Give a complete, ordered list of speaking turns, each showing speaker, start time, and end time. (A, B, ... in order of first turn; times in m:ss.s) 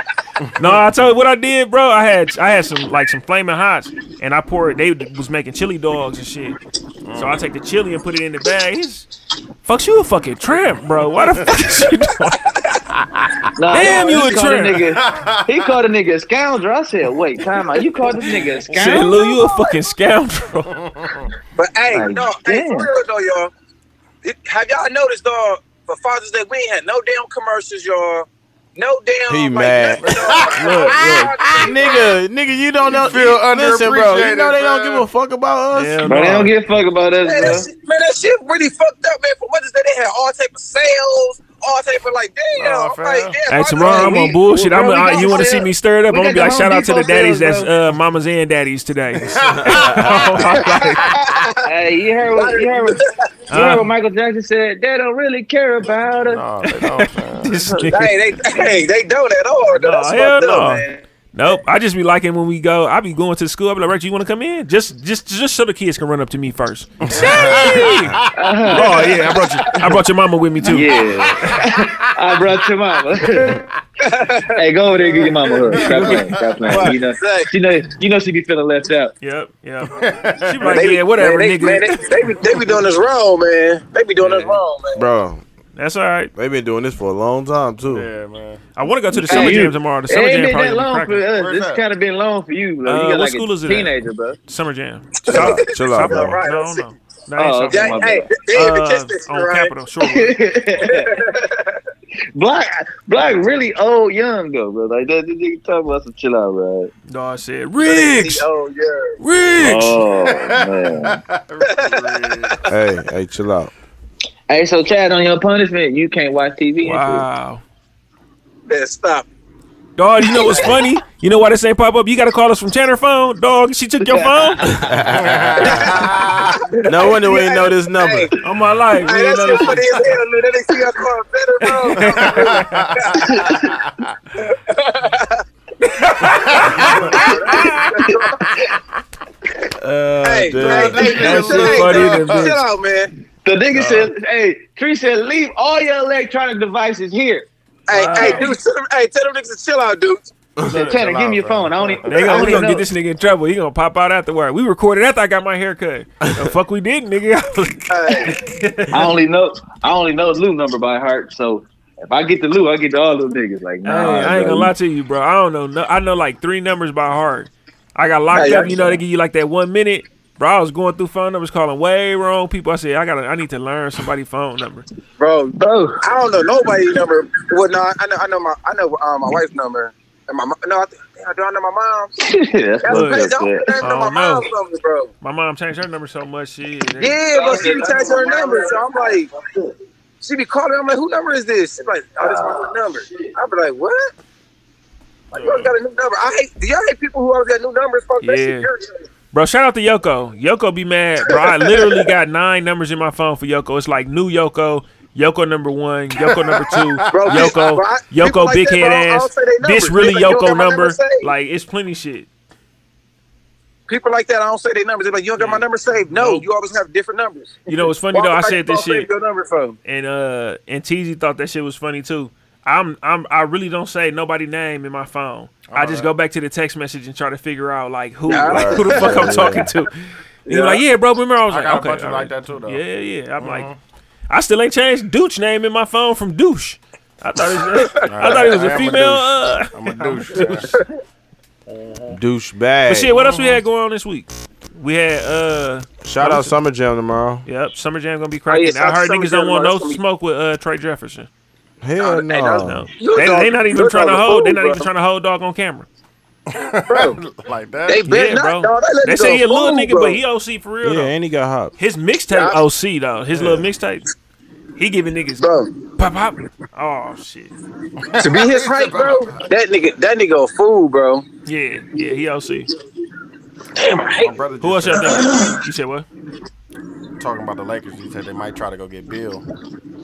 0:00.6-0:06.6 A
0:07.0-0:07.4 B
0:07.2-0:09.1 A
0:09.6-0:12.6 A
0:11.4-0:11.9 B
0:13.2-0:14.2 B
0:13.6-0:19.2 C
0:13.7-0:14.9 A
0:14.9-0:15.7 B
0:18.7-0:20.7 A
0:19.1-0:19.7 D
0:20.7-0:21.3 B
0:21.6-0:23.5 D
0:21.9-0:22.9 C
0:24.2-0:32.1 D
0:29.3-0:30.1 E
0:30.0-0:31.9 B
0:30.6-0:31.3 A
0:31.6-0:36.1 E
0:32.8-0:35.1 B
0:35.7-0:36.5 A
0:36.0-0:37.7 C
0:37.2-0:44.2 D
0:42.6-0:43.4 B
0:43.5-0:51.2 A
0:43.8-0:47.7 C
0:45.1-0:45.5 D
0:49.2-0:51.6 B
0:49.4-0:50.1 E
0:50.8-0:51.5 D
0:51.6-0:56.4 C
0:52.3-0:53.2 D
0:53.5-0:53.9 A
0:56.2-0:57.7 B
0:56.6-0:58.4 A
0:57.6-0:57.9 C
0:57.9-1:01.0 D
0:59.7-1:11.6 A
1:07.0-1:09.4 B
1:08.3-1:09.1 C
1:10.6-1:13.6 C
1:10.7-1:12.4 B
1:13.2-1:13.7 B
1:14.0-1:15.3 D
1:14.5-1:19.1 C
1:15.7-1:17.0 B
1:16.7-1:17.5 D
1:19.2-1:22.7 A
1:19.9-1:20.8 B
1:20.6-1:25.1 D
1:24.2-1:24.6 A
1:25.0-1:25.4 E
1:25.8-1:26.3 A
1:26.4-1:28.1 E
1:27.9-1:28.6 B
1:28.8-1:31.2 A
1:29.1-1:34.4 C
1:31.3-1:31.8 B
1:32.9-1:40.5 A
1:35.3-1:36.4 E
1:35.3-1:36.8 D
1:37.4-1:38.3 C
1:37.7-1:39.7 D
1:40.0-1:41.2 C
1:40.9-1:41.8 D
1:42.4-1:46.9 C
1:47.1-1:48.5 A
1:47.8-1:49.2 D
1:49.2-1:50.0 A
1:49.6-1:51.2 C
1:50.0-1:52.6 B
1:51.7-1:52.6 D
1:52.7-1:53.7 E
1:54.5-1:57.2 C
1:56.8-1:57.6 A
1:58.7-1:59.3 D
2:00.0-2:04.7 A
2:00.3-2:00.7 D
2:04.0-2:04.6 C
2:04.6-2:06.0 E
2:05.1-2:06.6 B
2:06.5-2:08.4 D
2:06.9-2:08.3 E
2:08.4-2:10.0 A
2:09.0-2:13.3 D
2:11.9-2:13.0 A
2:11.9-2:14.1 B
2:13.1-2:13.8 C
2:14.4-2:15.4 D
2:16.0-2:18.6 D
2:16.2-2:18.8 B
2:16.3-2:17.6 A
2:16.9-2:18.1 C
2:19.8-2:21.9 E
2:20.2-2:23.1 D
2:20.5-2:22.6 B
2:21.0-2:22.6 A
2:23.4-2:27.5 C
2:23.7-2:24.1 A
2:27.9-2:30.3 D
2:27.9-2:28.6 A
2:28.2-2:28.5 C
2:30.6-2:32.7 B
2:30.7-2:32.9 C
2:32.1-2:39.1 A
2:36.2-2:36.5 E
2:37.9-2:38.4 D
2:38.9-2:44.7 C
2:43.8-2:54.9 A
2:48.3-2:49.0 D
2:48.5-2:49.0 C
2:55.2-3:02.2 D
2:55.6-2:56.0 C
3:02.2-3:03.8 C
3:02.8-3:05.1 D
3:02.9-3:03.3 A
3:03.8-3:04.5 A
3:05.2-3:07.9 A
3:07.0-3:09.3 D
3:07.3-3:09.2 C
3:10.2-3:14.1 D
3:12.2-3:12.8 C
3:15.3-3:18.9 D
3:15.3-3:15.7 A
3:18.2-3:18.7 A
3:19.3-3:32.3 A
3:21.3-3:22.1 D
3:26.2-3:27.5 B
3:27.1-3:31.3 D
3:33.9-3:39.8 D
3:35.4-3:36.5 A
3:37.7-3:39.1 A
3:39.8-3:49.9 A
3:45.7-3:46.1 B
3:48.3-3:49.4 D
3:48.4-3:49.7 E
3:50.5-3:53.7 A
3:50.5-3:50.8 D
3:51.5-3:52.8 B
3:53.4-3:53.8 B
3:54.3-4:00.7 A
3:58.1-4:00.8 B
4:01.7-4:02.2 B
4:02.1-4:03.2 E
4:02.9-4:06.6 A
4:03.2-4:03.6 B
4:06.0-4:07.4 E
4:07.4-4:11.3 A
4:08.5-4:10.0 D
4:11.8-4:12.9 E
4:12.0-4:14.9 D
4:12.6-4:15.9 A
4:16.5-4:18.0 B
4:16.9-4:17.2 D
4:17.9-4:20.2 D
4:18.0-4:21.1 A
4:20.8-4:21.8 E
4:21.8-4:24.1 A
4:22.3-4:22.6 D
4:23.3-4:23.7 B
4:24.8-4:27.5 A
4:25.4-4:25.7 D
4:28.0-4:29.4 B
4:28.2-4:31.2 D
4:31.5-4:32.7 A
4:33.8-4:34.3 D
4:34.2-4:35.4 B
4:34.6-4:36.1 A
4:37.2-4:39.4 B